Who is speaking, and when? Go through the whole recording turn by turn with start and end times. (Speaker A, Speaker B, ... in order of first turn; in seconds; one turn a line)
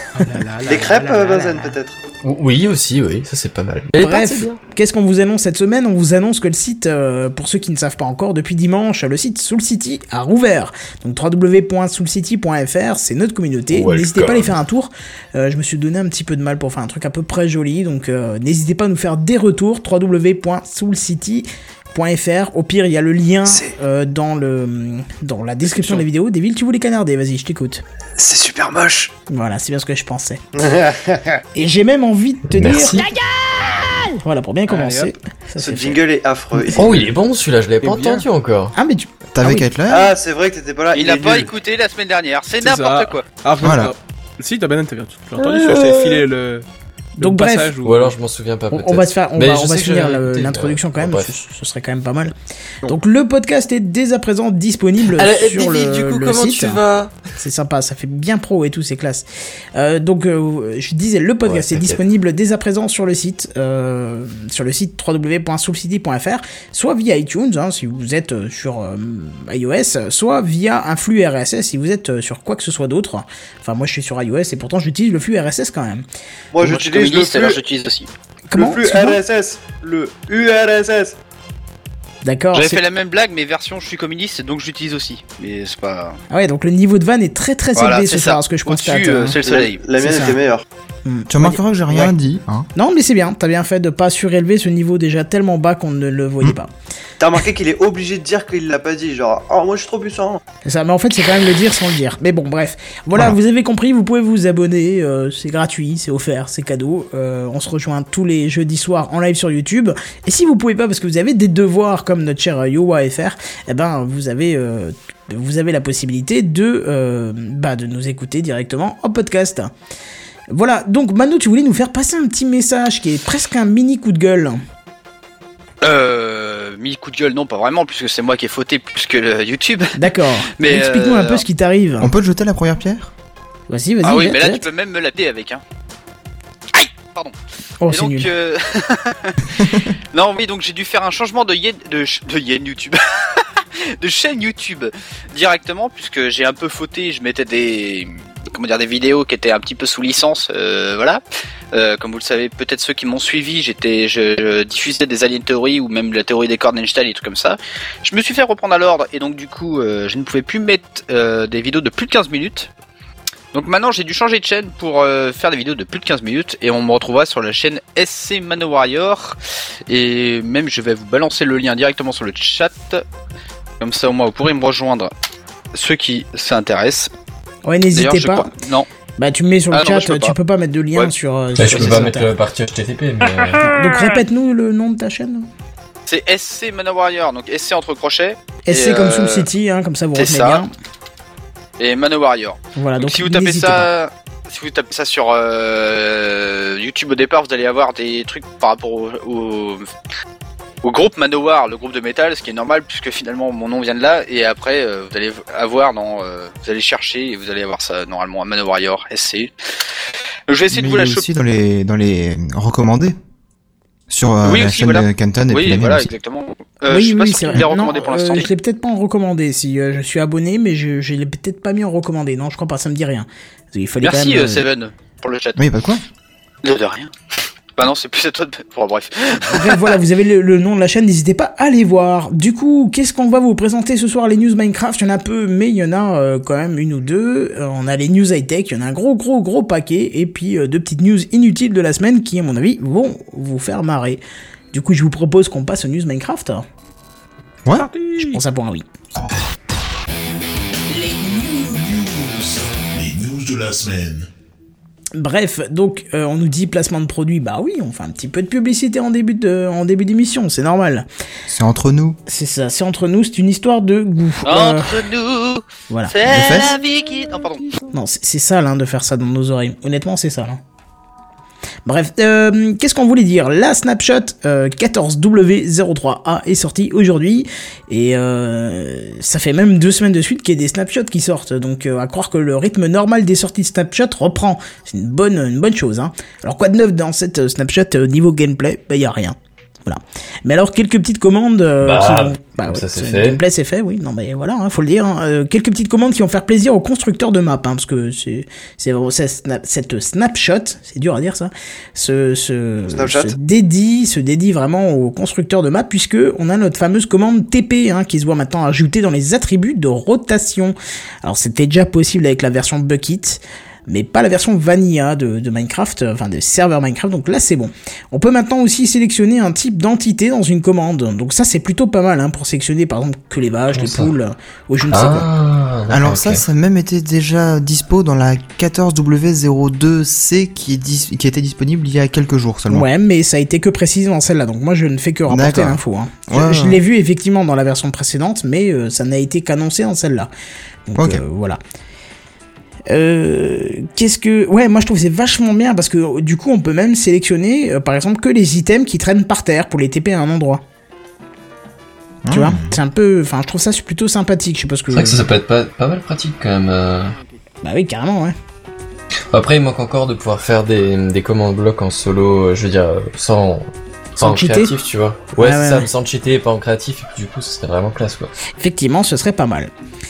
Speaker A: 0.2-1.8
Speaker B: 0.6-2.0
Speaker C: 2.2-4.6
Speaker D: 4.0-27.8
Speaker C: 13.7-14.5
Speaker B: 23.5-23.7
Speaker A: 25.7-26.0
Speaker B: 28.2-29.1
Speaker D: 29.3-30.4
Speaker B: 30.6-31.4
Speaker D: 31.6-33.1
Speaker C: 32.5-33.1
Speaker D: 34.2-36.0
Speaker A: 34.7-35.1
Speaker B: 35.6-37.2
Speaker D: 36.5-36.9
Speaker C: 36.7-38.7
Speaker A: 37.8-38.3
Speaker D: 38.8-39.7
Speaker E: 39.3-40.1
Speaker B: 39.9-41.5
Speaker F: 40.9-43.3
Speaker A: 42.6-46.6
Speaker E: 43.6-43.9
Speaker C: 45.4-46.2
Speaker D: 47.2-47.7
Speaker A: 47.2-48.2
Speaker C: 47.8-51.3
Speaker D: 48.7-52.3
Speaker D: 52.9-56.8
Speaker C: 55.0-57.1
Speaker D: 57.4-76.0
Speaker C: 61.5-62.0
Speaker B: 76.5-77.6
Speaker F: 76.6-78.1
Speaker D: 78.5-79.2
Speaker B: 78.5-81.2
Speaker D: 82.2-82.8
Speaker F: 82.5-86.2
Speaker D: 86.3-89.4
Speaker F: 87.8-89.8
Speaker B: 89.4-90.6
Speaker D: 90.0-90.4
Speaker D: 91.0-92.1
Speaker E: 91.3-92.7
Speaker D: 92.8-96.7
Speaker B: 97.2-100.4
Speaker D: 100.7-119.7
Speaker D: 120.5-124.6
Speaker F: 125.8-131.4
Speaker D: 129.9-132.1
Speaker E: 132.0-133.1
Speaker D: 133.7-134.7
Speaker F: 134.0-135.6
Speaker F: 136.7-137.3
Speaker D: 137.8-138.3
Speaker F: 137.9-139.4
Speaker E: 139.6-139.8
Speaker F: 140.1-151.2
Speaker F: 151.7-162.7
Speaker F: 163.5-173.0
Speaker F: 173.8-175.1
Speaker F: 175.7-177.1
Speaker D: 177.7-178.5
Speaker F: 177.9-178.9
Speaker D: 179.2-182.3
Speaker F: 179.7-180.3
Speaker C: 181.6-183.7
Speaker D: 183.6-185.5
Speaker F: 186.1-189.5
Speaker D: 188.7-190.7
Speaker F: 190.2-190.6
Speaker F: 191.8-199.9
Speaker D: 192.8-193.9
Speaker F: 200.8-209.5
Speaker F: 210.5-211.3
Speaker E: 210.7-213.2
Speaker E: 214.1-216.1
Speaker F: 214.4-218.5
Speaker D: 216.9-224.7
Speaker F: 224.0-225.6
Speaker E: 225.6-226.0
Speaker F: 226.6-227.1
Speaker F: 227.8-230.0
Speaker D: 229.4-244.2
Speaker D: 244.7-246.7
Speaker A: 247.7-248.4
Speaker D: 248.2-248.8
Speaker G: 250.9-254.3
Speaker D: 255.2-261.1
Speaker E: 261.5-262.2
Speaker D: 262.3-265.0
Speaker F: 264.4-267.7
Speaker D: 265.9-266.2
Speaker E: 266.2-266.7
Speaker D: 267.9-270.6
Speaker D: 271.9-325.3
Speaker C: 291.8-293.4
Speaker B: 302.9-303.4
Speaker C: 323.7-324.1
Speaker C: 324.9-326.4
Speaker E: 325.9-332.9
Speaker D: 332.7-340.3
Speaker E: 335.3-336.8
Speaker D: 340.9-341.6
Speaker E: 341.0-341.2
Speaker D: 342.9-350.6
Speaker E: 352.2-352.8
Speaker D: 352.3-355.2
Speaker C: 354.9-357.1
Speaker D: 357.6-358.4
Speaker C: 359.3-368.3
Speaker D: 364.2-364.8
Speaker D: 365.4-365.9
Speaker D: 368.6-369.7